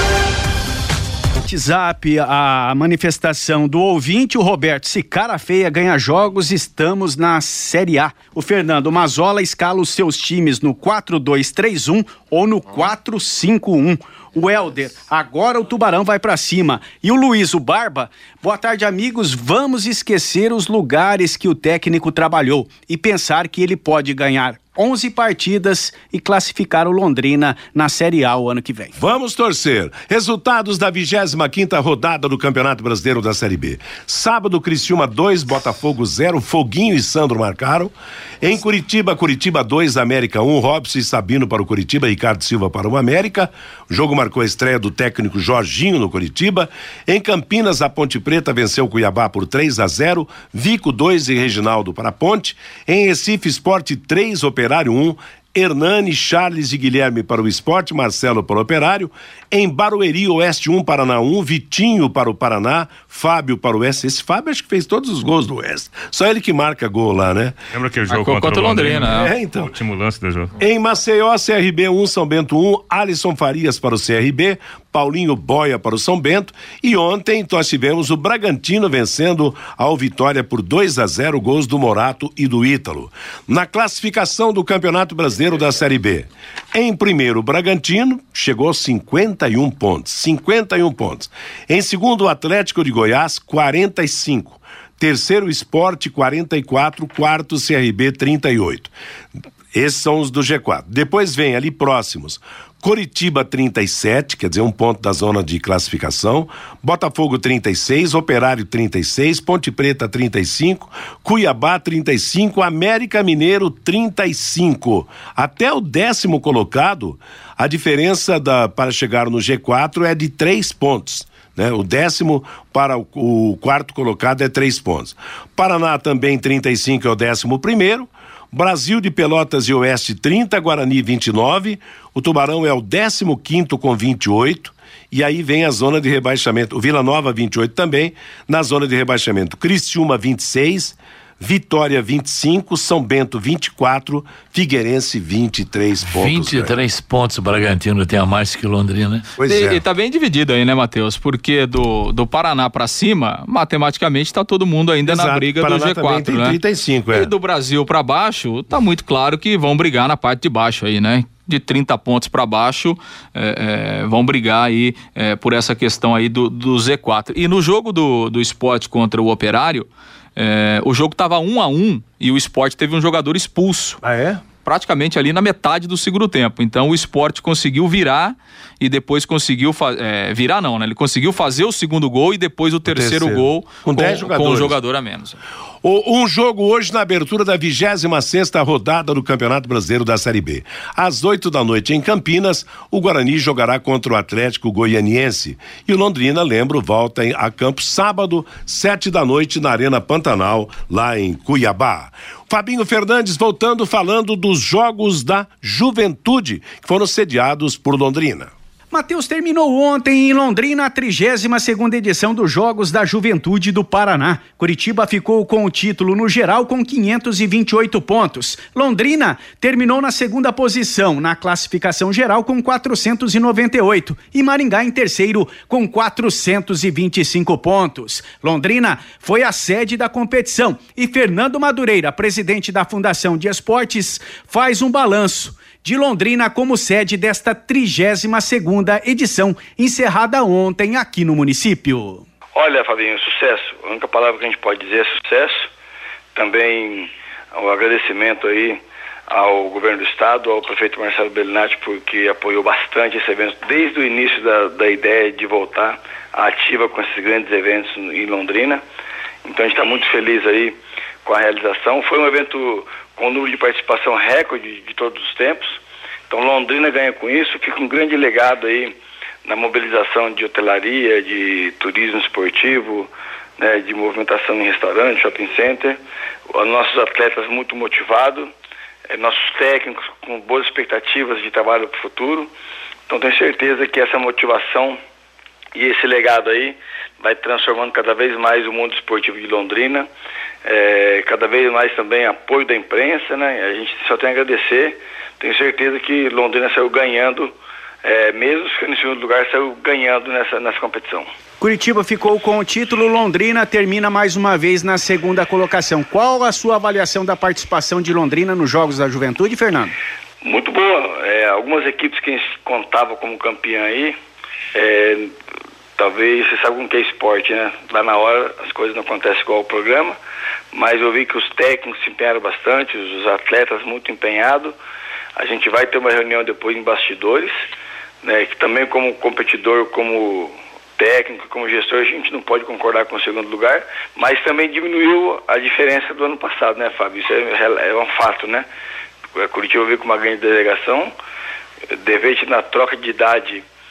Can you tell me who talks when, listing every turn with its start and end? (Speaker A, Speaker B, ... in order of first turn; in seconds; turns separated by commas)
Speaker A: 1.4-28.9, Speaker B: 29.0-67.6, Speaker C: 67.7-70.5, Speaker D: 68.1-69.3, Speaker B: 69.0-69.7, Speaker B: 70.6-98.9, Speaker B: 99.7-146.7, Speaker E: 146.1-149.3, Speaker B: 149.4-149.8, Speaker D: 149.4-156.6, Speaker B: 155.1-157.3, Speaker D: 157.1-174.0, Speaker B: 174.0-174.4, Speaker D: 174.6-185.4, Speaker B: 182.9-184.8, Speaker B: 185.8-208.5, Speaker A: 208.9-242.2, Speaker F: 242.6-245.7, Speaker F: 246.3-258.8, Speaker F: 259.4-265.8, Speaker F: 266.3-276.0, Speaker F: 276.5-278.5, Speaker F: 279.1-282.5, Speaker F: 283.1-285.0, Speaker F: 285.7-290.1, Speaker F: 290.6-301.3, Speaker A: 301.6-309.9, Speaker F: 310.4-314.2, Speaker F: 314.7-315.3, Speaker F: 315.9-320.2, Speaker F: 320.7-324.7, Speaker F: 325.4-327.5, Speaker F: 328.2-338.6, Speaker F: 339.4-341.1, Speaker F: 342.0-343.6